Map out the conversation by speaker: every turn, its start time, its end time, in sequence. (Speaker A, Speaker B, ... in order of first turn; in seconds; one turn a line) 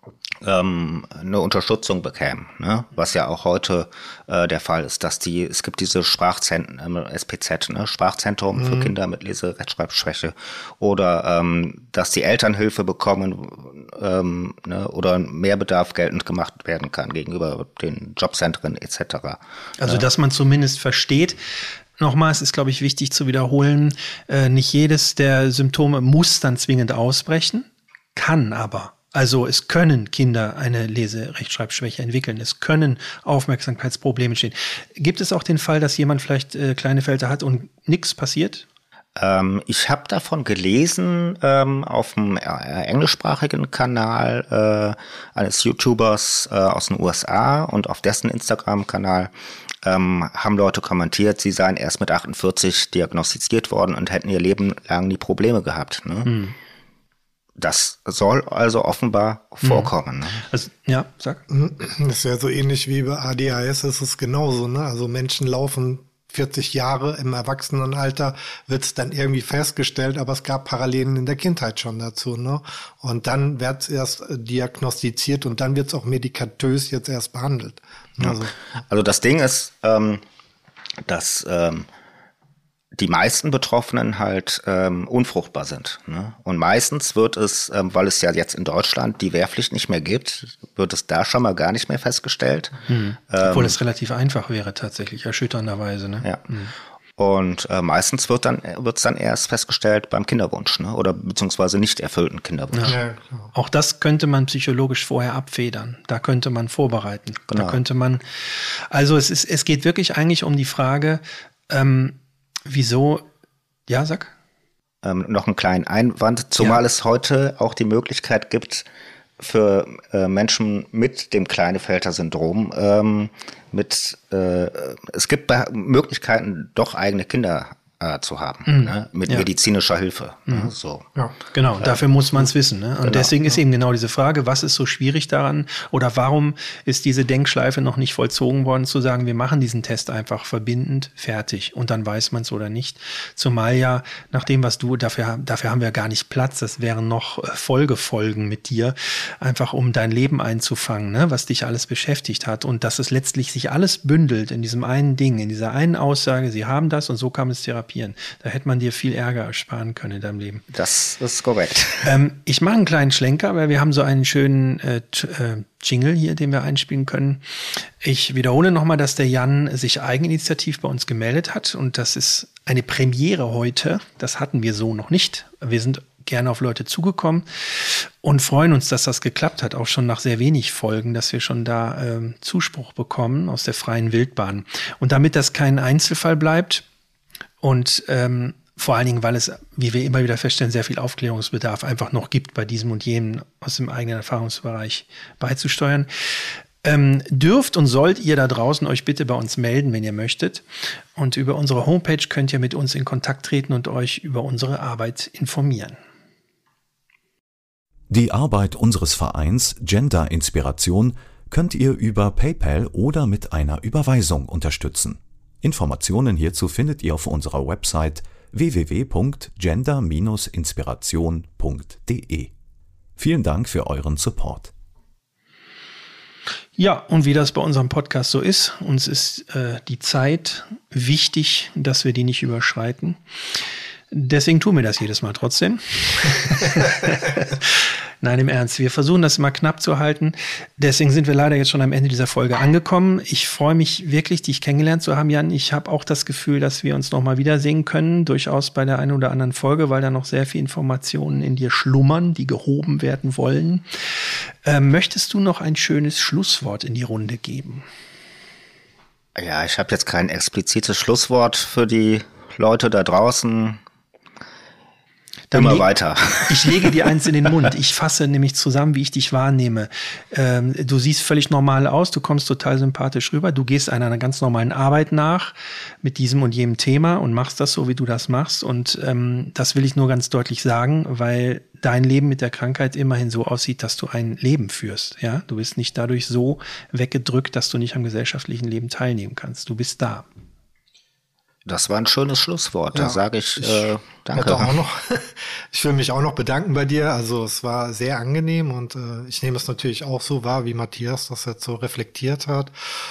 Speaker A: 0.4-20.1
Speaker B: 8.6-8.9
Speaker C: 19.8-21.4
Speaker C: 22.0-38.6
Speaker A: 39.2-49.3
Speaker A: 49.8-56.3
Speaker C: 56.2-56.6
Speaker A: 57.6-60.4
Speaker C: 59.6-61.4
Speaker B: 61.5-78.5
Speaker A: 78.2-80.2
Speaker A: 81.1-81.9
Speaker A: 83.0-93.8
Speaker C: 92.9-96.7
Speaker A: 97.2-103.0
Speaker B: 102.9-103.5
Speaker C: 103.5-113.3
Speaker A: 107.5-107.8
Speaker C: 113.9-114.3
Speaker A: 115.0-118.9
Speaker A: 119.4-131.1
Speaker C: 128.7-129.5
Speaker C: 130.5-130.7
Speaker C: 131.5-160.6
Speaker A: 131.8-132.5
Speaker A: 133.0-133.5
Speaker A: 160.7-162.1
Speaker C: 162.0-167.4
Speaker C: 168.0-186.8
Speaker C: 187.6-196.1
Speaker C: 196.8-200.6
Speaker C: 201.2-206.0
Speaker D: 208.1-222.5
Speaker D: 223.2-224.7
Speaker C: 226.8-233.2
Speaker C: 234.1-253.8
Speaker C: 254.7-257.9
Speaker A: 259.4-263.8
Speaker C: 265.5-265.9
Speaker A: 265.5-266.9
Speaker C: 266.4-290.3
Speaker A: 291.7-294.8
Speaker B: 292.9-302.7